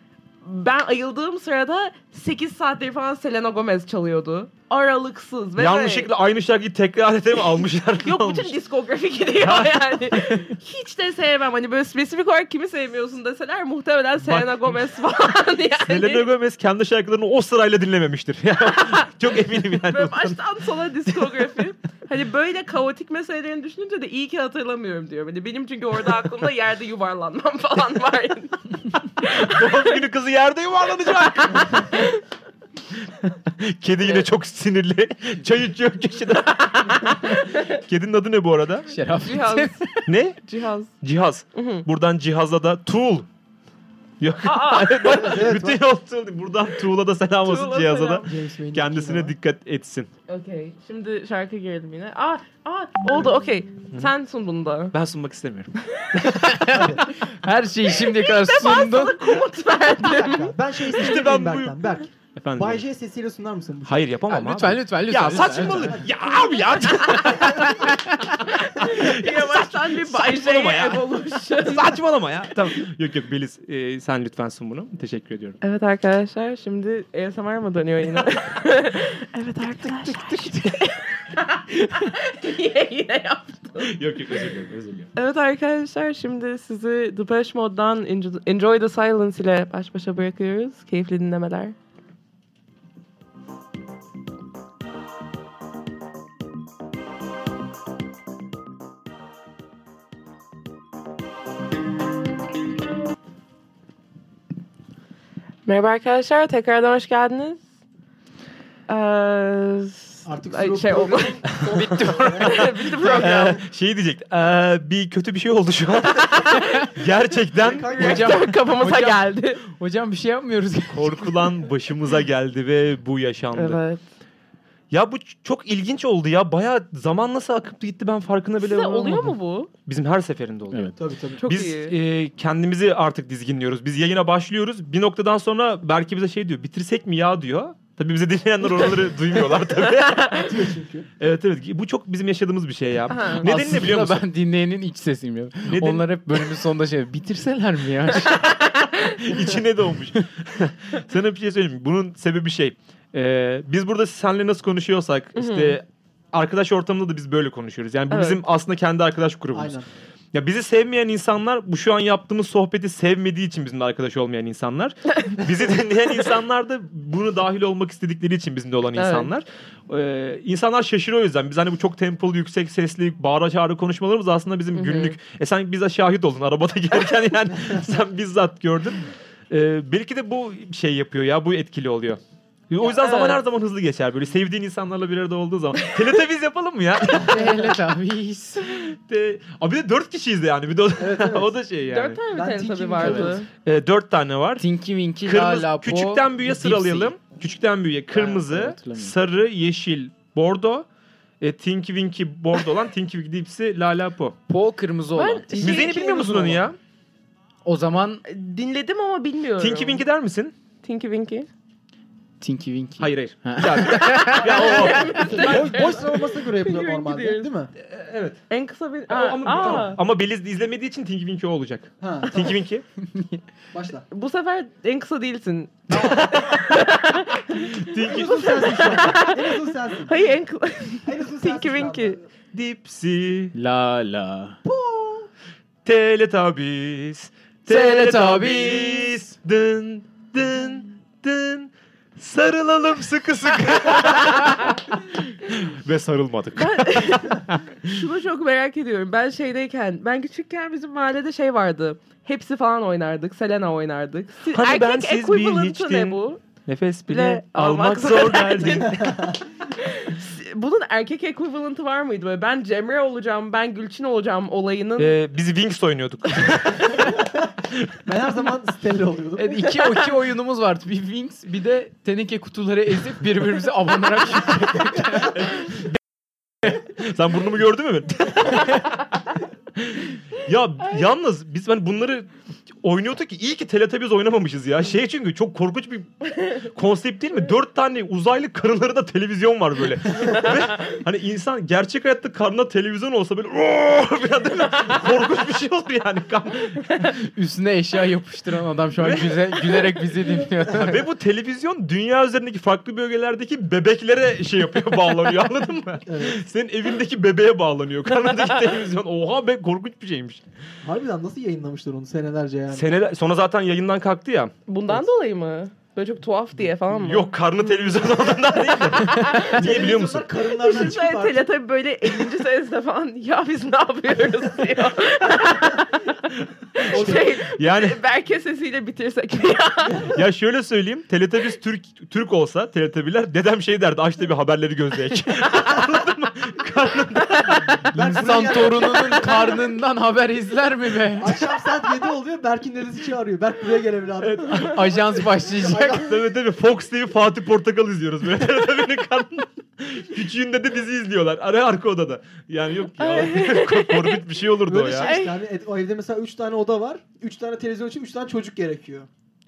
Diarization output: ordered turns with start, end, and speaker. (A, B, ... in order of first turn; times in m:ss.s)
0:00.4-0:06.1 A
0:05.6-0:08.6 B
0:08.0-0:16.3 A
0:09.4-0:10.3 B
0:14.2-0:14.8 B
0:15.8-0:20.6 B
0:18.7-0:19.1 A
0:19.7-0:30.0 A
0:29.3-0:32.1 B
0:31.2-0:32.2 A
0:33.0-0:39.0 B
0:34.0-0:34.3 A
0:36.7-0:37.7 A
0:38.9-0:40.1 C
0:39.2-0:39.9 A
0:40.0-0:40.4 B
0:40.4-0:40.9 A
0:41.0-0:43.3 B
0:41.6-0:41.9 A
0:44.2-0:50.1 B
0:44.4-0:45.5 A
0:45.1-0:45.8 D
0:47.4-0:48.3 A
0:48.2-0:49.4 D
0:50.3-0:54.9 A
0:54.9-0:56.8 B
0:56.4-0:59.2 C
0:56.7-0:57.0 D
0:57.9-1:00.6 A
0:59.9-1:04.0 D
1:00.9-1:02.8 B
1:03.9-1:07.9 B
1:04.3-1:06.1 C
1:05.5-1:06.0 D
1:07.0-1:08.4 C
1:07.1-1:07.7 A
1:08.4-1:12.0 A
1:08.8-1:15.6 B
1:15.6-1:24.0 A
1:19.8-1:20.9 C
1:23.8-1:25.1 B
1:25.2-1:31.8 A
1:45.7-1:47.6 A
1:48.9-1:51.5 A
1:50.2-1:53.5 D
1:51.7-1:58.2 B
1:51.8-1:52.7 C
1:52.4-1:53.6 A
1:56.2-1:56.9 A
1:57.6-1:58.4 D
1:58.0-1:59.6 A
1:58.0-2:01.5 C
2:00.9-2:03.8 B
2:03.6-2:04.0 A
2:04.9-2:20.5 B
2:08.6-2:09.7 A
2:11.0-2:11.4 D
2:11.4-2:12.0 A
2:18.8-2:20.5 A
2:20.4-2:21.1 D
2:21.2-2:24.2 B
2:23.1-2:23.5 A
2:23.4-2:28.6 C
2:25.7-2:26.0 B
2:28.3-2:29.2 A
2:28.6-2:39.8 B
2:35.4-2:35.8 A
2:38.1-2:38.4 A
2:39.5-2:39.9 D
2:40.3-3:07.8 B
2:49.0-2:49.3 A
2:54.8-2:55.2 A
3:02.8-3:03.4 A
3:07.2-3:08.9 C
3:08.7-3:12.2 B
3:11.0-3:11.5 D
3:11.9-3:13.5 A
3:12.2-3:13.4 D
3:13.0-3:13.4 C
3:13.6-3:14.7 B
3:14.6-3:17.2 C
3:15.2-3:20.9 B
3:18.1-3:19.2 C
3:21.4-3:24.4 B
3:24.5-3:25.8 C
3:25.2-3:26.5 A
3:25.6-3:26.8 B
3:27.6-3:28.2 C
3:28.2-3:30.0 A
3:29.6-3:30.5 B
3:30.8-3:31.5 A
3:32.4-3:35.0 C
3:33.0-3:35.7 B
3:33.9-3:37.5 A
3:35.3-3:37.7 D
3:37.8-3:38.4 B
3:38.5-3:40.0 A
3:39.1-3:42.8 B
3:42.0-3:42.6 D
3:43.0-3:43.4 C
3:43.7-3:44.1 D
3:44.1-3:52.2 A
3:45.9-3:46.8 B
3:47.6-3:49.0 B
3:48.0-3:50.2 D
3:51.0-3:52.2 D
3:52.5-3:53.5 B
3:53.5-3:54.6 C
3:54.6-3:55.3 D
3:55.8-4:08.0 B
3:57.7-3:59.3 C
4:06.6-4:16.4 A
4:14.5-4:19.2 B
4:17.1-4:19.0 A
4:18.6-4:19.5 D
4:19.8-4:25.1 A
4:25.0-4:28.0 B
4:27.0-4:27.3 D
4:28.0-4:29.8 D
4:29.4-4:35.5 C
4:35.4-4:36.0 B
4:36.6-4:39.1 B
4:39.8-4:42.3 B
4:42.8-4:56.8 B
4:57.0-5:01.1 C
4:59.0-4:59.9 B
5:00.7-5:10.4 B
5:06.1-5:06.4 D
5:10.8-5:12.9 D
5:12.7-5:14.5 B
5:14.7-5:17.3 A
5:16.9-5:20.3 B
5:18.2-5:21.5 D
5:19.1-5:19.9 A
5:20.6-5:30.1 A
5:26.8-5:28.0 B
5:26.9-5:27.3 D
5:30.1-5:37.9 B
5:37.9-5:41.6 C
5:37.9-5:39.6 D
5:41.2-5:46.2 D
5:44.2-5:45.0 B
5:44.6-5:46.1 C
5:45.8-5:55.2 B
5:53.0-5:54.2 A
5:54.7-5:59.1 D
5:55.0-5:55.4 A